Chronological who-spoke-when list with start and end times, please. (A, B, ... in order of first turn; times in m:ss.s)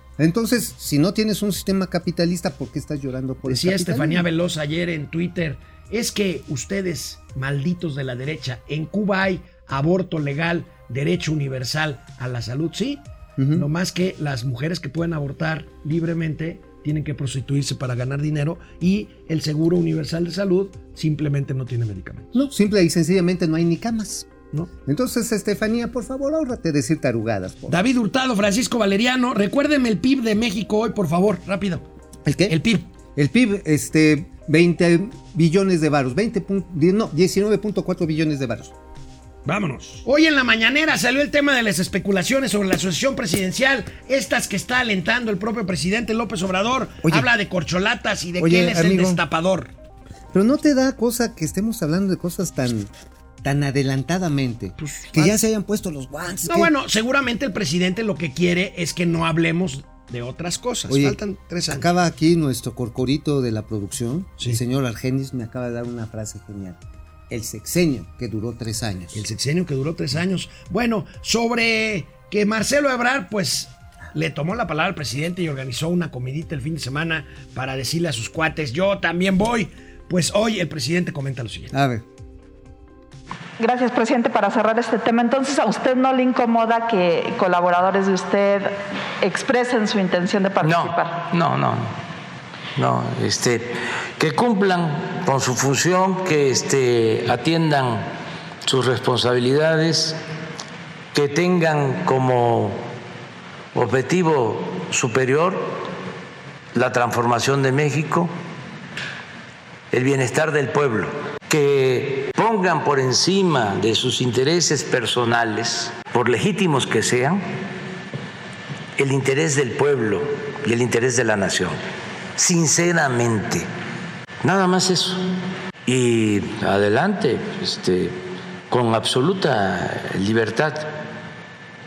0:00.2-0:04.2 A
0:03.4-0:22.4 B
0:13.4-0:13.7 A
0:22.3-0:24.3 A
0:24.9-0:27.8 A
0:27.7-0:31.8 B
0:32.2-0:38.7 A
0:32.5-0:32.9 B
0:39.4-0:49.7 B
0:47.0-0:47.3 A
0:48.4-0:49.2 A
0:50.3-0:52.9 A
0:53.4-0:56.7 A
0:54.8-0:55.4 B
0:56.4-1:01.9 B
1:00.9-1:09.2 A
1:09.1-1:21.7 B
1:21.7-1:22.0 A
1:23.6-1:31.2 C
1:30.6-1:32.0 D
1:32.8-1:38.1 D
1:38.6-1:40.2 D
1:41.1-1:42.8 D
1:43.7-1:45.7 D
1:46.7-1:48.3 D
1:49.9-1:57.4 D
1:59.0-2:01.8 D
2:02.4-2:03.7 D
2:04.4-2:05.2 D
2:05.9-2:08.1 D
2:08.7-2:10.9 D